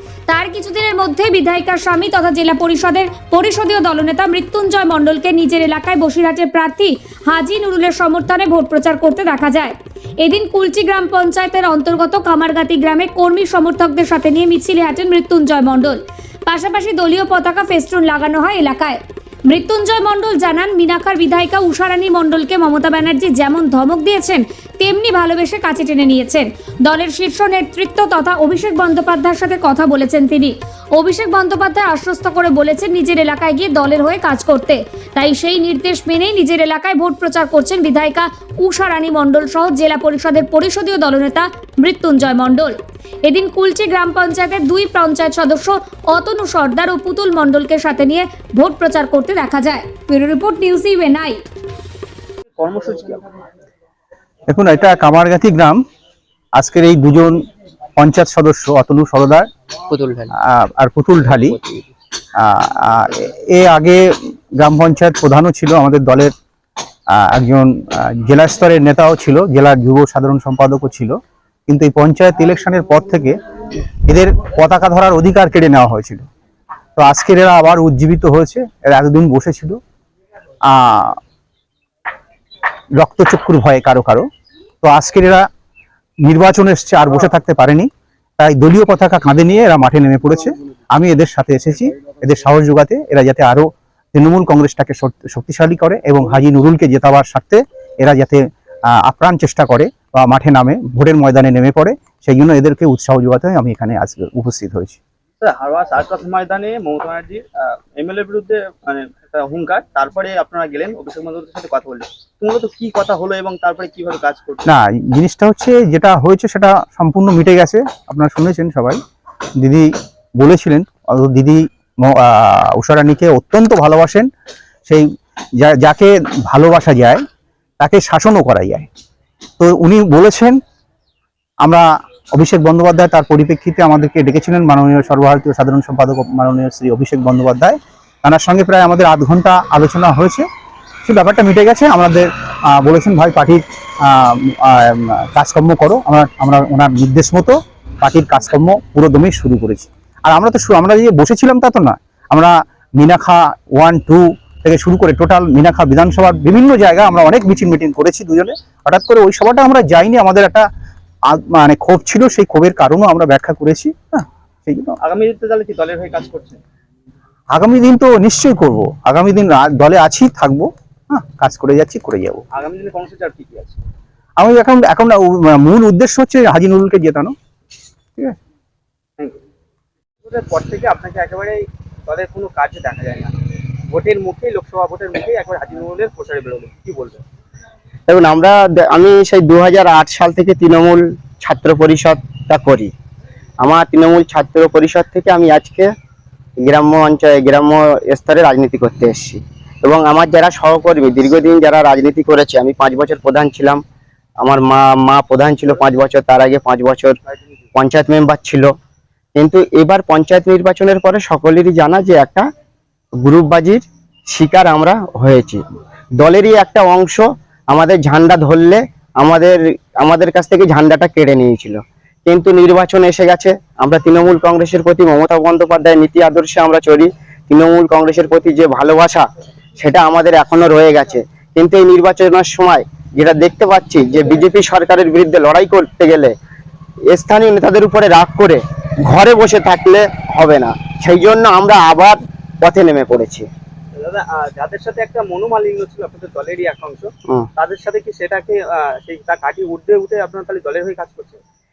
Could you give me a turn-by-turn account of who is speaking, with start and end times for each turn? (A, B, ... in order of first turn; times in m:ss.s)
0:00.3-0:51.4 A
0:52.6-0:53.3 B
0:54.5-0:55.8 C
0:56.6-0:57.4 C
0:58.0-0:59.5 C
0:59.9-1:00.2 D
1:00.4-1:01.6 C
1:02.4-1:04.0 C
1:04.6-1:06.3 C
1:07.1-1:11.2 C
1:11.7-1:13.4 C
1:14.1-1:16.3 C
1:17.0-1:19.8 C
1:20.7-1:21.2 C
1:23.0-1:24.3 C
1:24.8-1:25.4 C
1:26.2-1:45.0 C
1:45.4-1:54.6 B
1:54.7-1:59.0 C
1:59.6-2:04.3 C
2:05.6-2:07.2 C
2:07.8-2:08.9 C
2:09.6-2:10.6 C
2:11.6-2:20.5 C
2:21.0-2:40.7 C
2:41.3-2:45.0 C
2:45.0-2:46.6 B
2:47.5-2:52.4 C
2:52.5-2:53.8 B
2:54.4-2:57.3 C
3:00.2-3:03.3 B
3:03.9-3:07.2 B
3:08.1-3:12.9 D
3:13.6-3:15.9 D
3:16.6-3:23.8 D
3:24.4-3:27.2 D
3:27.3-3:27.6 B
3:27.8-3:28.7 D
3:29.4-3:32.4 D
3:33.2-3:35.6 D
3:36.2-3:49.2 D
3:49.8-3:56.3 D
3:57.1-4:03.5 D
4:04.0-4:11.4 B